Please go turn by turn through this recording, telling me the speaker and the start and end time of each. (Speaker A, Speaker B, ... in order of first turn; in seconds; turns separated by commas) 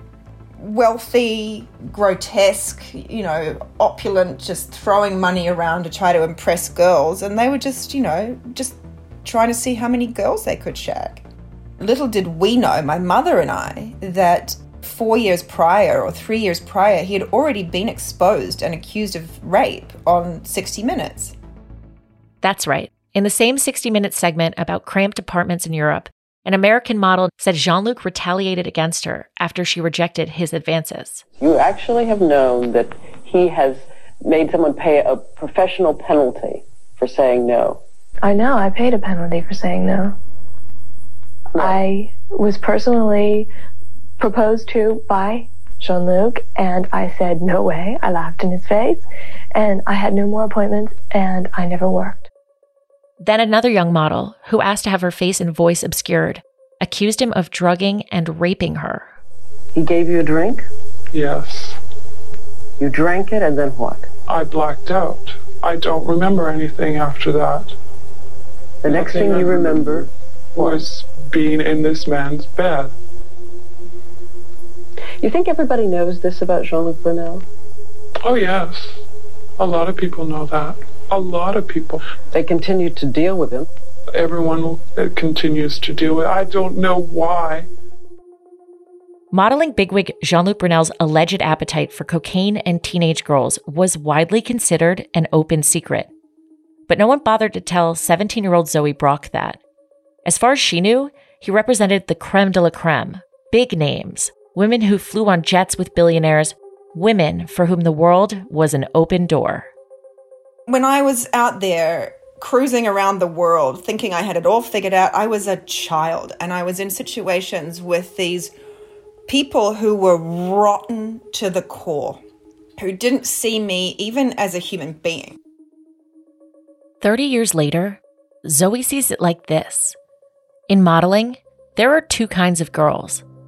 Speaker A: 0.6-11.2, Speaker A: 11.8-21.4, Speaker B: 22.4-31.2, Speaker C: 31.4-37.8, Speaker D: 38.2-40.2, Speaker C: 41.5-41.8, Speaker D: 41.6-43.5, Speaker D: 44.2-52.3, Speaker B: 53.2-59.1, Speaker C: 59.8-60.7, Speaker E: 61.1-61.8, Speaker C: 62.8-64.1, Speaker E: 64.3-67.8, Speaker C: 68.8-70.8, Speaker E: 68.9-72.9, Speaker C: 75.2-77.5, Speaker E: 78.2-79.0, Speaker E: 79.6-82.0, Speaker C: 82.3-83.7, Speaker E: 84.2-87.7, Speaker B: 89.3-96.1, Speaker B: 96.9-99.6, Speaker B: 100.2-109.7, Speaker A: 110.7-118.5, Speaker A: 119.3-122.2, Speaker A: 122.8-125.4, Speaker B: 127.0-129.9, Speaker B: 130.7-133.2